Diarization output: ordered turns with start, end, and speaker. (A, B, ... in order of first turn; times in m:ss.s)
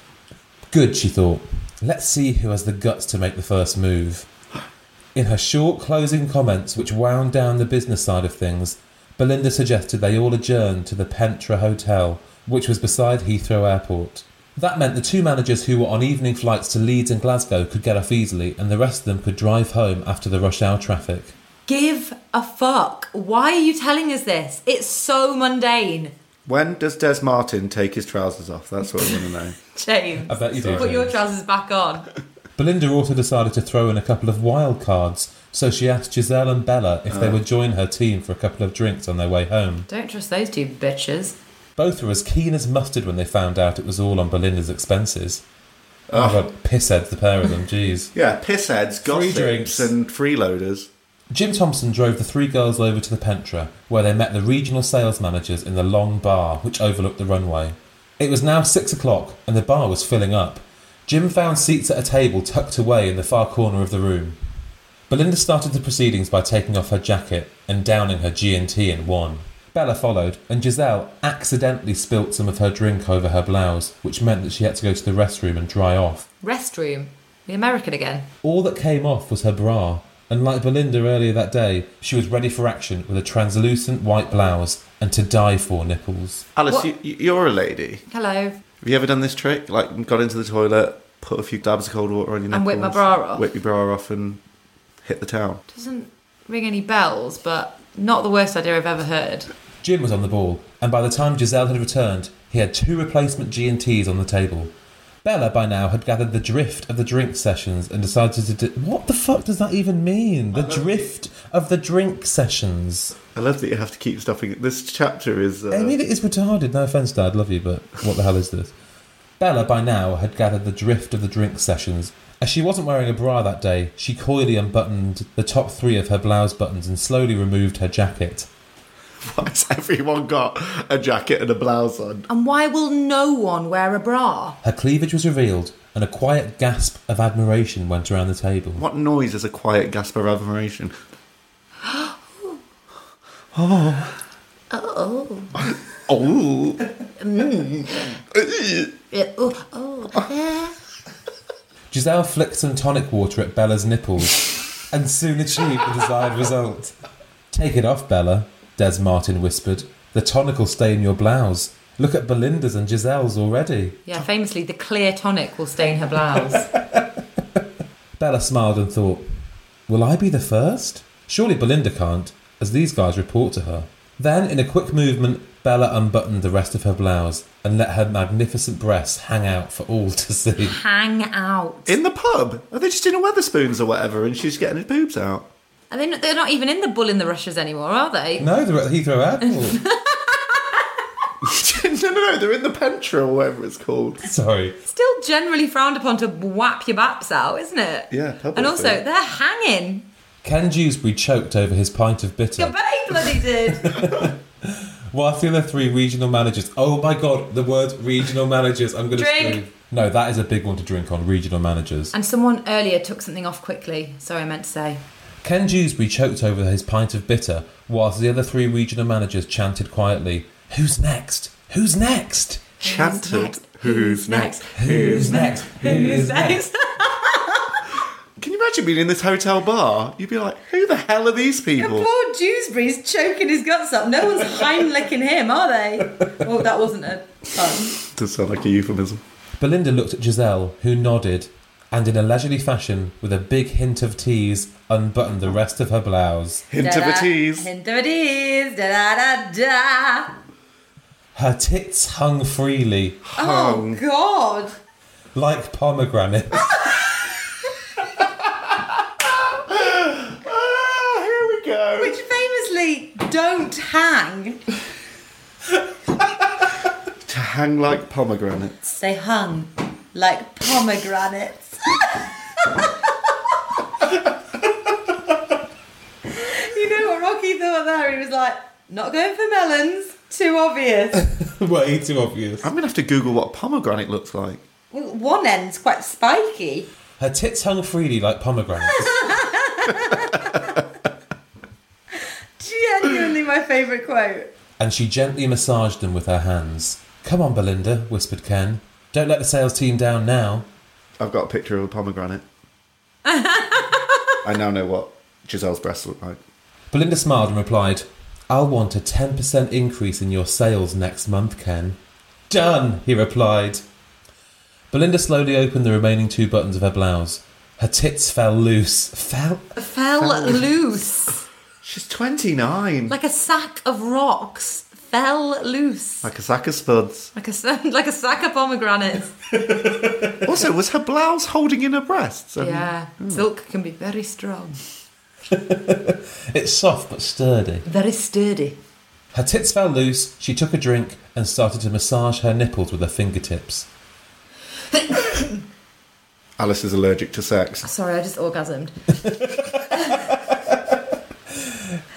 0:00.7-0:04.3 A
0:05.1-0:21.3 A
0:21.7-0:26.1 B
0:26.4-0:29.6 C
0:29.7-0:32.1 B
0:30.3-0:31.2 A
0:30.5-0:30.9 C
0:32.6-0:39.9 A
0:37.1-0:37.4 C
0:39.9-0:41.4 B
0:41.8-0:45.4 A
0:46.1-0:46.5 C
0:46.1-0:48.1 A
0:48.1-0:50.9 C
0:49.0-0:49.9 A
0:51.3-1:04.4 A
1:05.1-1:16.3 A
1:16.4-1:18.3 B
1:18.4-1:26.5 A
1:26.6-1:28.0 C
1:28.1-1:28.6 B
1:28.8-1:34.4 C
1:32.5-1:33.4 B
1:35.0-1:35.6 C
1:35.7-1:39.5 B
1:39.8-1:44.7 A
1:45.2-1:53.1 A
1:50.5-1:51.1 C
1:53.3-1:56.0 C
1:55.7-1:58.7 A
1:59.4-2:08.5 A
2:09.2-2:12.3 C
2:12.3-2:14.6 B
2:14.6-2:18.8 A
2:18.8-2:20.9 C
2:21.8-2:22.6 B
2:23.5-2:24.2 C
2:24.7-2:25.5 B
2:25.7-2:26.8 C
2:27.2-2:28.2 B
2:28.3-2:28.9 C
2:29.1-2:30.8 B
2:31.9-2:36.9 A
2:37.5-2:44.0 A
2:44.0-2:46.7 B
2:48.2-2:49.3 A
2:49.9-3:00.8 A
3:00.6-3:01.9 B
3:01.9-3:05.5 C
3:05.9-3:08.5 B
3:08.4-3:09.8 A
3:09.5-3:10.8 B
3:11.4-3:14.2 C
3:14.2-3:14.8 A
3:14.9-3:20.1 B
3:18.1-3:19.0 C
3:20.4-3:22.8 A
3:22.6-3:24.1 B
3:23.3-3:32.1 A
3:29.1-3:29.6 B
3:32.1-3:35.0 B
3:35.4-3:42.7 A
3:42.8-3:47.8 B
3:42.8-3:45.6 C
3:44.8-3:46.6 A
3:48.4-3:52.1 C
3:51.8-3:58.0 B
3:58.0-3:59.2 C
3:59.6-4:06.6 A
4:06.7-4:07.7 C
4:06.8-4:10.3 B
4:11.3-4:13.2 A
4:13.2-4:14.0 C
4:13.4-4:14.7 B
4:15.3-4:16.8 A
4:19.5-4:22.2 C
4:22.0-4:24.6 B
4:27.2-4:28.9 C
4:28.9-4:32.0 B
4:32.6-4:32.9 B
4:36.3-4:41.2 B
4:41.2-4:42.7 A
4:42.6-4:44.6 C
4:44.9-4:46.9 B
4:47.2-4:49.3 A
4:48.9-4:50.8 B
4:52.6-4:54.5 B
4:54.8-5:00.7 A
5:01.2-5:02.4 C
5:03.2-5:04.3 B
5:04.4-5:06.4 C
5:06.9-5:12.0 A
5:12.5-5:13.8 A
5:14.9-5:19.7 A
5:19.8-5:21.4 B
5:20.2-5:20.7 C
5:21.8-5:23.1 C
5:23.1-5:26.3 B
5:26.2-5:27.3 C
5:27.3-5:29.3 B
5:30.4-5:33.4 C
5:32.6-5:34.8 B
5:35.5-5:37.8 A
5:37.8-5:38.8 B
5:39.3-5:43.9 A
5:44.9-5:45.6 B
5:46.6-5:47.9 C
5:47.8-5:48.9 B
5:49.2-5:51.0 A
5:51.5-5:52.0 A